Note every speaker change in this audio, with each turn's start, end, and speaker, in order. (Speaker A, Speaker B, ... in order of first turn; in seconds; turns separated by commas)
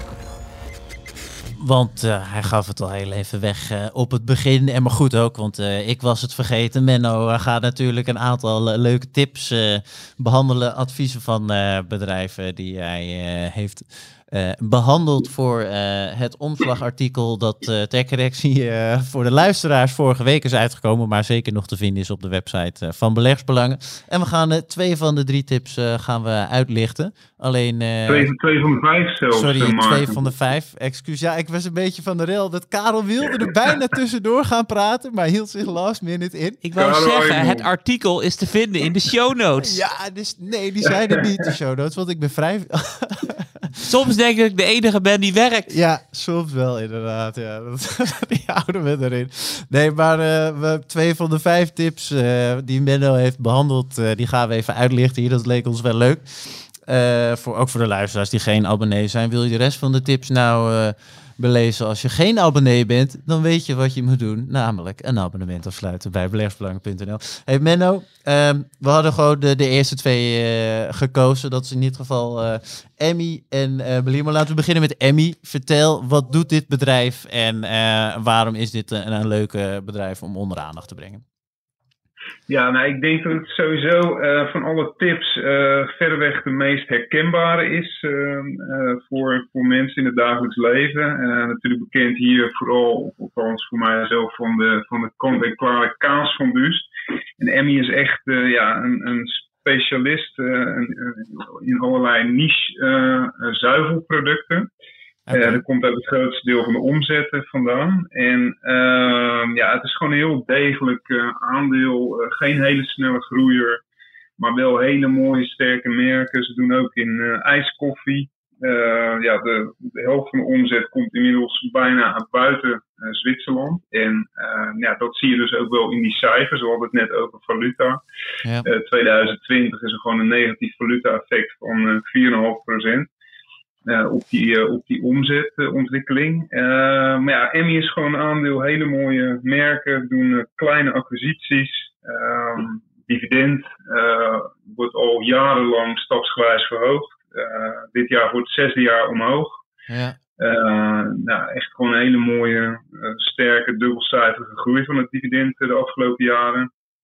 Speaker A: 1.6-28.3, Speaker B: 28.1-30.3, Speaker A: 29.3-36.6, Speaker C: 36.6-39.8, Speaker B: 36.8-37.7, Speaker A: 39.6-43.7, Speaker C: 43.8-45.7, Speaker A: 45.7-81.2, Speaker B: 82.5-96.9, Speaker B: 97.4-104.7, Speaker A: 105.3-105.6, Speaker B: 105.3-113.8, Speaker B: 114.4-128.0, Speaker B: 128.6-133.1, Speaker B: 133.8-149.6, Speaker A: 149.9-150.2, Speaker B: 150.4-156.7